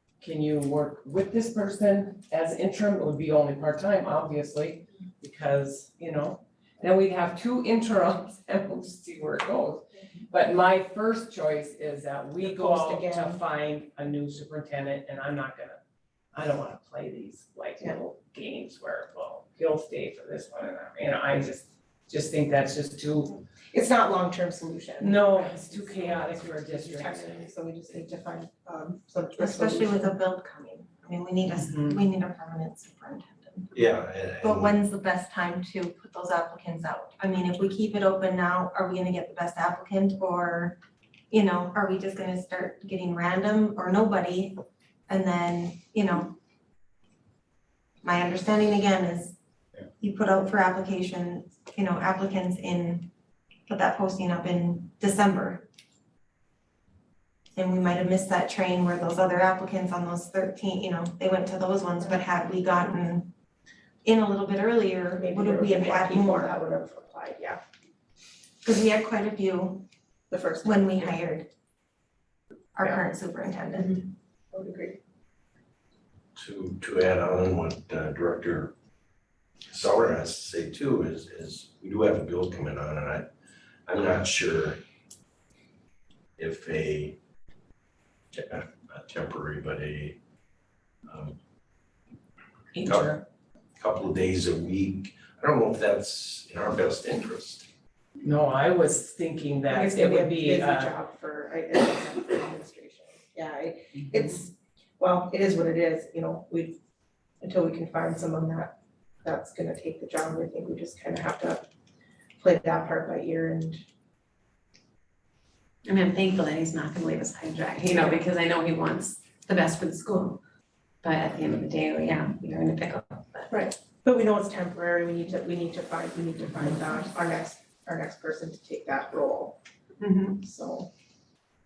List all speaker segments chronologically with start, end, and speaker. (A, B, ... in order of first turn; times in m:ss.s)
0:00.2-0:15.8 A
0:12.4-0:13.4 B
0:16.3-0:23.4 A
0:23.7-0:30.2 B
0:25.0-0:27.2 A
0:29.4-0:40.8 C
0:31.5-0:32.0 A
0:33.7-0:34.7 D
0:41.3-0:46.4 C
0:48.0-0:49.4 C
0:50.0-0:53.1 C
0:53.7-0:55.6 C
0:57.6-1:03.3 C
1:04.0-1:06.6 C
1:05.2-1:07.6 B
1:08.6-1:09.9 C
1:10.3-1:11.2 B
1:10.6-1:11.5 C
1:12.8-1:14.0 C
1:12.8-1:13.1 B
1:13.8-1:15.0 B
1:16.4-1:18.7 D
1:19.7-1:23.3 D
1:23.9-1:24.8 D
1:26.4-1:27.2 D
1:28.3-1:30.2 D
1:31.1-1:31.4 D
1:32.7-1:33.2 A
1:32.8-1:33.1 D
1:33.8-1:37.7 D
1:38.2-1:41.0 A
1:39.7-1:46.8 B
1:47.4-1:51.7 B
1:52.4-1:53.8 B
1:55.8-2:00.4 E
2:01.0-2:03.5 E
2:03.5-2:09.6 B
2:10.4-2:10.9 B